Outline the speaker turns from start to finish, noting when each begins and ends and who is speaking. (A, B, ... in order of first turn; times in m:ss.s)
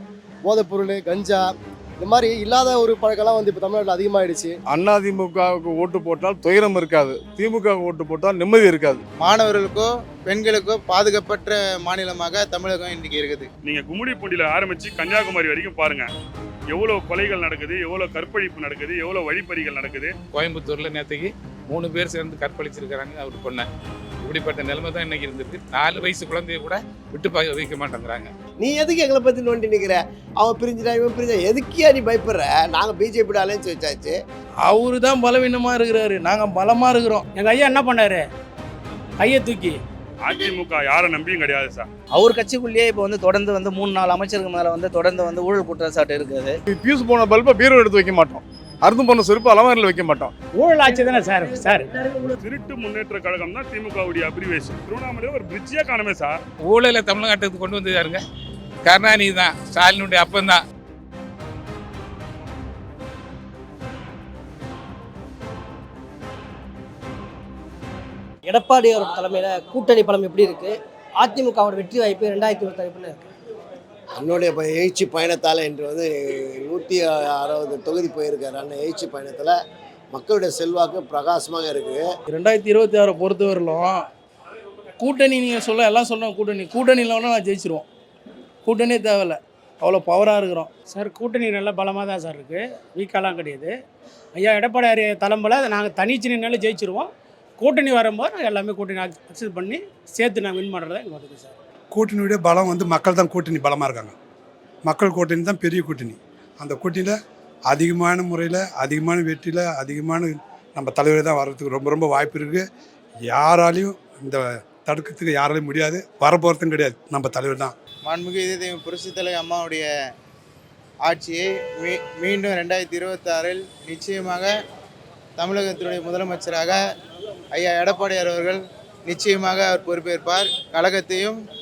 0:00.4-0:01.5 A
0:02.0-0:04.5 A
0:04.7-0:09.0 B
0:09.2-0:13.5 C
0:13.6-0:16.1 D
0:16.7-0:20.1 D
0:20.3-0:23.7 E
0:24.2-0:28.3 E
0:28.6-0:34.2 F
0:34.6-0:37.2 G
0:37.4-0:38.2 H
0:39.2-0:39.8 H
0:40.2-0:41.9 D
0:42.1-0:46.6 I
0:46.7-0:50.3 B
0:50.6-0:51.9 H
0:50.8-0:52.4 J
0:52.4-0:56.4 D
0:56.7-0:58.2 E
0:58.8-1:00.6 E
1:08.5-1:13.2 J
1:14.2-1:19.5 F
1:20.1-1:22.1 F
1:22.3-1:24.0 G
1:25.0-1:27.8 G
1:28.6-1:30.7 G
1:30.9-1:33.7 H
1:34.3-1:37.1 H
1:37.6-1:41.6 H
1:41.9-1:44.1 K
1:44.8-1:47.1 K
1:47.7-1:52.6 K
1:53.3-1:57.7 K
1:58.0-1:59.9 C
2:01.0-2:04.5 C
2:05.4-2:06.8 C
2:07.5-2:11.4 C